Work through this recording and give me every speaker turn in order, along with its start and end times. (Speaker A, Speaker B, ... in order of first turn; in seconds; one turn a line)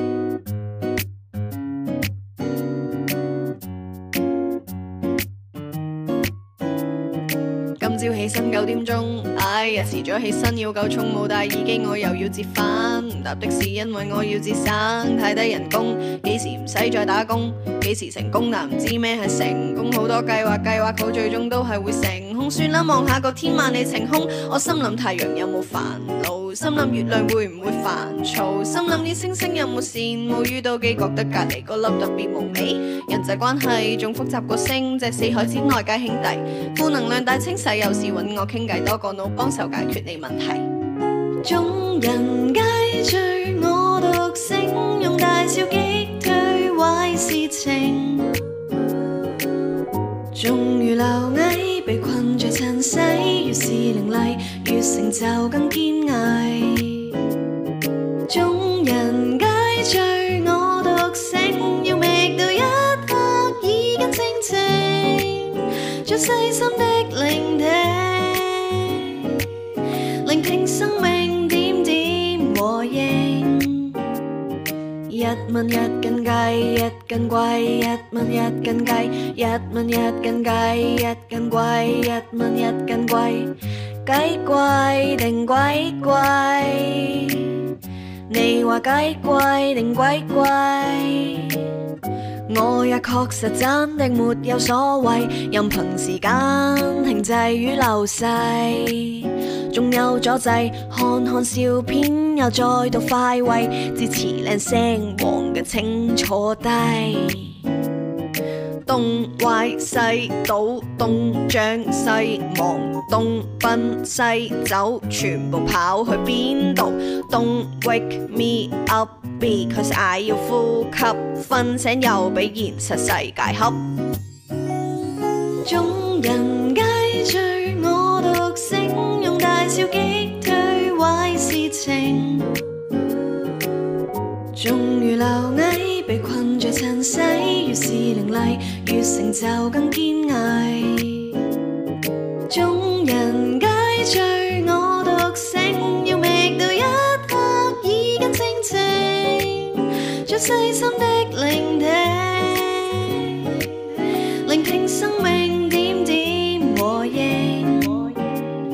Speaker A: 7.8-40.7
Speaker A: 41.4-48.4
Speaker A: 50.3-57.2
Speaker A: 58.3-69.3
Speaker A: 70.2-74.0
Speaker A: 75.1-83.5
Speaker A: 84.0-87.6
Speaker A: 88.3-91.7
Speaker A: 92.5-107.6
Speaker A: 108.9-123.9
Speaker A: 125.6-132.6
Speaker A: 134.5-141.4
Speaker A: 142.5-158.5